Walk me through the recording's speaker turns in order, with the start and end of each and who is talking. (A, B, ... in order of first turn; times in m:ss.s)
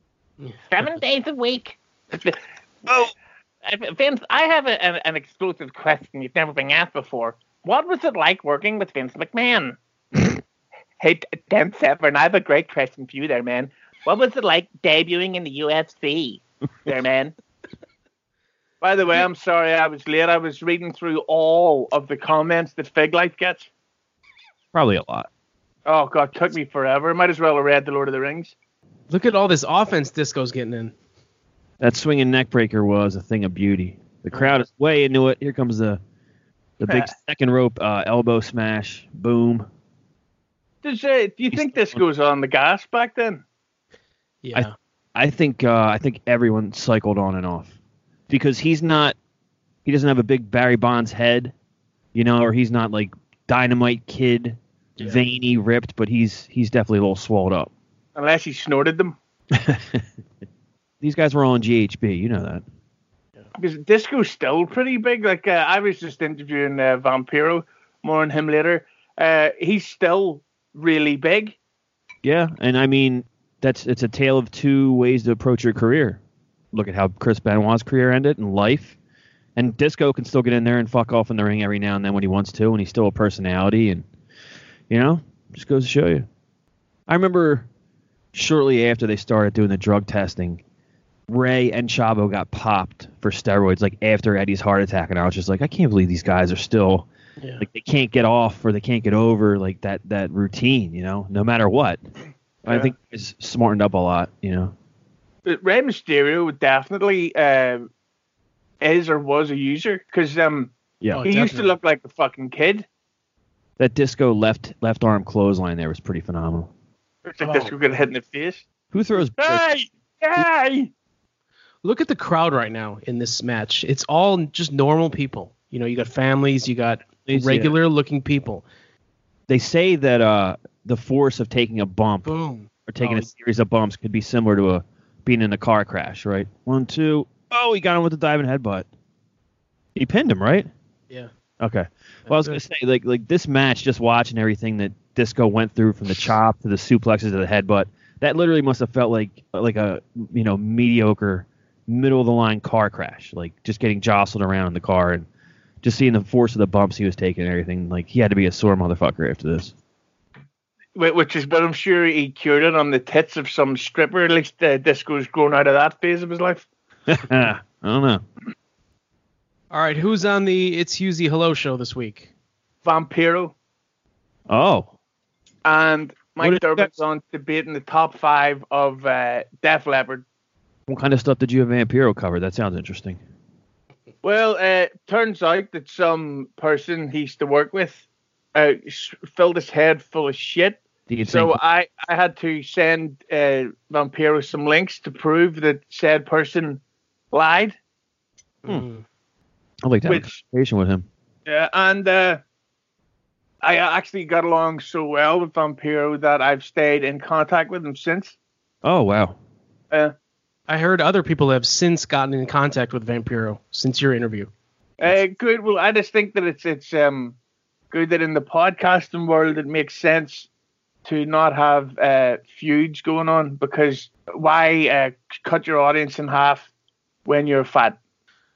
0:00.7-0:03.1 A
0:03.6-0:09.8 A
0:11.0-0:17.3 A
0:18.8-0:23.7 A
0:24.7-0:25.3 B
0:25.9-0:28.6 A
0:29.1-0:30.9 C
0:31.8-0:36.0 B
0:34.3-0:34.6 C
0:36.8-0:39.7 B
0:36.8-0:37.2 A
0:40.8-0:43.4 A
0:41.5-0:42.0 B
0:44.4-0:44.7 C
0:44.5-0:47.8 B
0:48.3-0:49.2 B
0:49.8-0:51.5 B
0:52.1-0:57.7 B
0:55.0-0:55.2 C
0:58.2-0:59.2 A
0:59.6-1:00.0 B
1:01.0-1:02.6 B
1:03.6-1:11.6 A
1:12.2-1:16.2 B
1:16.7-1:19.0 B
1:19.6-1:24.1 B
1:24.9-1:26.3 B
1:27.1-1:27.7 B
1:28.3-1:30.6 B
1:31.3-1:37.1 B
1:37.4-1:37.6 C
1:37.6-1:42.0 B
1:42.6-1:44.7 B
1:45.4-1:47.9 A
1:48.8-1:52.9 A
1:51.0-1:51.3 B
1:51.2-1:51.8 C
1:53.8-1:56.7 B
1:57.2-1:58.7 A
1:57.4-1:57.7 C
1:58.9-1:59.7 B
1:59.3-2:00.9 A
2:01.8-2:08.7 C
2:07.3-2:07.8 B
2:09.5-2:18.9 B
2:12.2-2:13.3 C
2:20.0-2:20.7 B
2:21.6-2:35.3 B
2:22.3-2:22.6 C
2:35.8-2:39.7 B
2:41.0-2:46.7 A
2:47.1-2:48.2 B
2:49.7-2:52.3 C
2:52.8-2:53.5 A
2:54.5-2:54.9 B
2:55.6-3:00.2 A
2:56.3-2:57.0 B
3:00.9-3:03.2 B
3:04.2-3:16.8 A
3:11.1-3:11.6 B
3:17.3-3:17.8 A
3:18.7-3:19.0 C
3:19.8-3:21.1 B
3:20.1-3:20.4 A
3:21.5-3:22.4 A
3:23.6-3:28.4 A
3:28.8-3:29.4 B
3:30.7-3:34.5 C
3:35.0-3:37.4 A
3:37.9-3:40.5 A
3:41.0-3:46.7 A
3:47.2-3:48.0 A